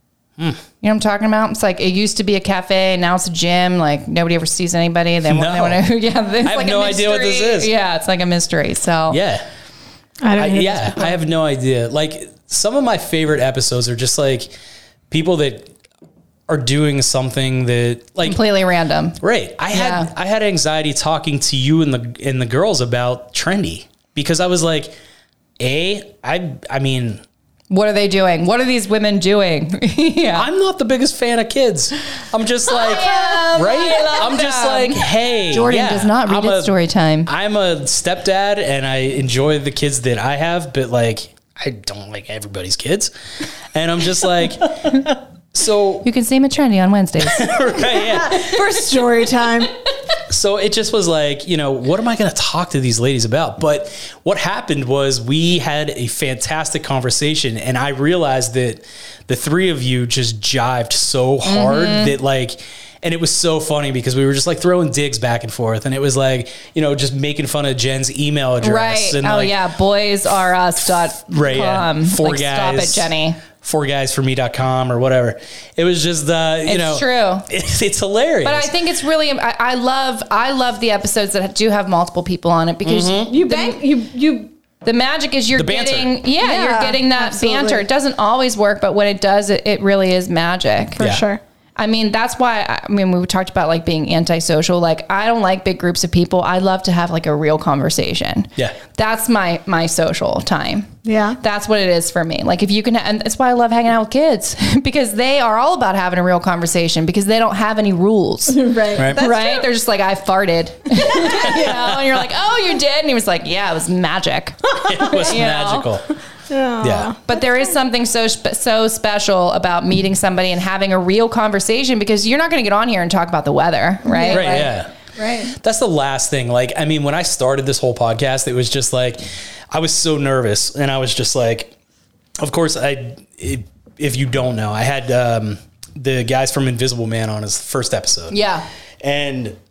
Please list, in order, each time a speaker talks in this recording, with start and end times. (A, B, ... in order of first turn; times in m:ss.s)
0:00.8-0:09.2 A
0:05.2-0:05.8 B
0:06.4-0:07.7 B
0:09.1-0:09.5 B
0:10.2-0:11.2 C
0:10.4-0:14.5 B
0:15.1-0:15.7 B
0:16.5-0:18.4 B
0:18.2-0:20.1 A
0:19.2-0:25.0 B
0:25.6-0:27.2 B
0:27.7-0:30.5 A
0:30.4-0:43.1 B
0:32.7-0:37.3 A
0:33.1-0:33.5 C
0:43.7-0:46.1 B
0:46.0-0:47.9 A
0:47.2-0:48.6 B
0:48.0-0:49.7 C
0:50.3-1:09.6 B
1:01.4-1:02.2 A
1:08.6-1:13.4 A
1:11.2-1:18.7 B
1:16.7-1:17.5 A
1:18.4-1:23.8 A
1:22.8-1:23.4 B
1:23.3-1:24.5 C
1:24.8-1:31.0 A
1:25.6-1:26.1 B
1:26.4-1:27.9 C
1:31.0-1:31.4 C
1:31.0-1:31.2 B
1:31.8-1:55.9 A
1:41.0-1:41.4 C
1:48.5-1:49.7 C
1:51.1-1:51.5 C
1:51.3-1:52.2 B
1:54.8-1:56.1 B
1:56.5-1:57.8 C
1:56.8-1:57.1 B
1:57.3-2:04.7 A
2:04.0-2:05.5 C
2:04.3-2:04.9 B
2:05.5-2:11.8 B
2:12.4-2:18.4 B
2:18.3-2:18.7 A
2:19.0-2:19.6 B